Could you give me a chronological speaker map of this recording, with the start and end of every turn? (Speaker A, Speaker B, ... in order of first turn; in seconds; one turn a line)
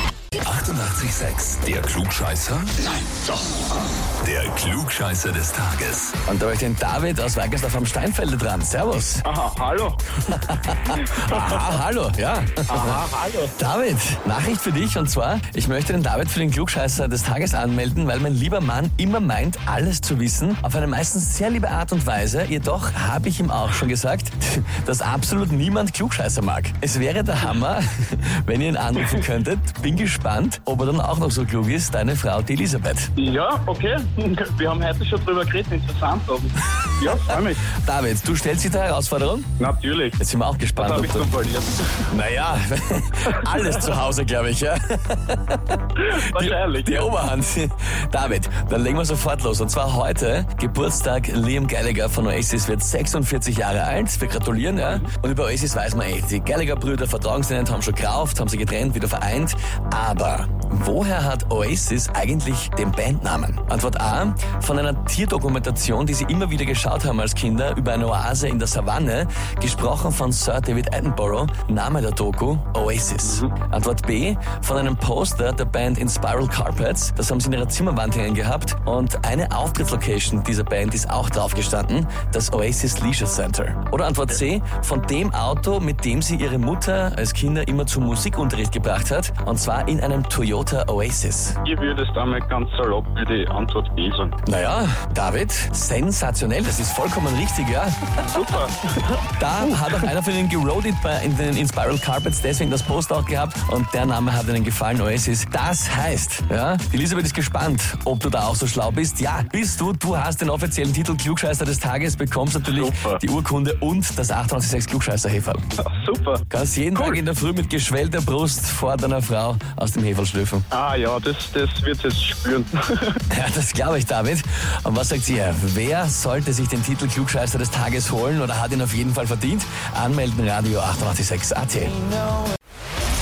Speaker A: 0.4-2.8
Speaker A: 4.2-6.2
Speaker B: 6.2-9.2
Speaker C: 9.2-11.8
Speaker B: 10.3-33.1
Speaker C: 12.7-13.6
Speaker C: 33.2-37.6
Speaker B: 37.7-39.5
Speaker C: 39.6-40.2
Speaker B: 40.2-41.3
Speaker C: 40.8-42.1
Speaker B: 42.1-91.6
Speaker C: 46.0-47.1
Speaker C: 91.6-94.3
Speaker B: 94.4-98.5
Speaker C: 98.2-99.2
Speaker B: 99.3-115.7
Speaker C: 112.6-113.2
Speaker C: 115.8-116.4
Speaker B: 116.5-120.7
Speaker C: 116.9-117.2
Speaker C: 120.7-123.2
Speaker B: 123.3-132.0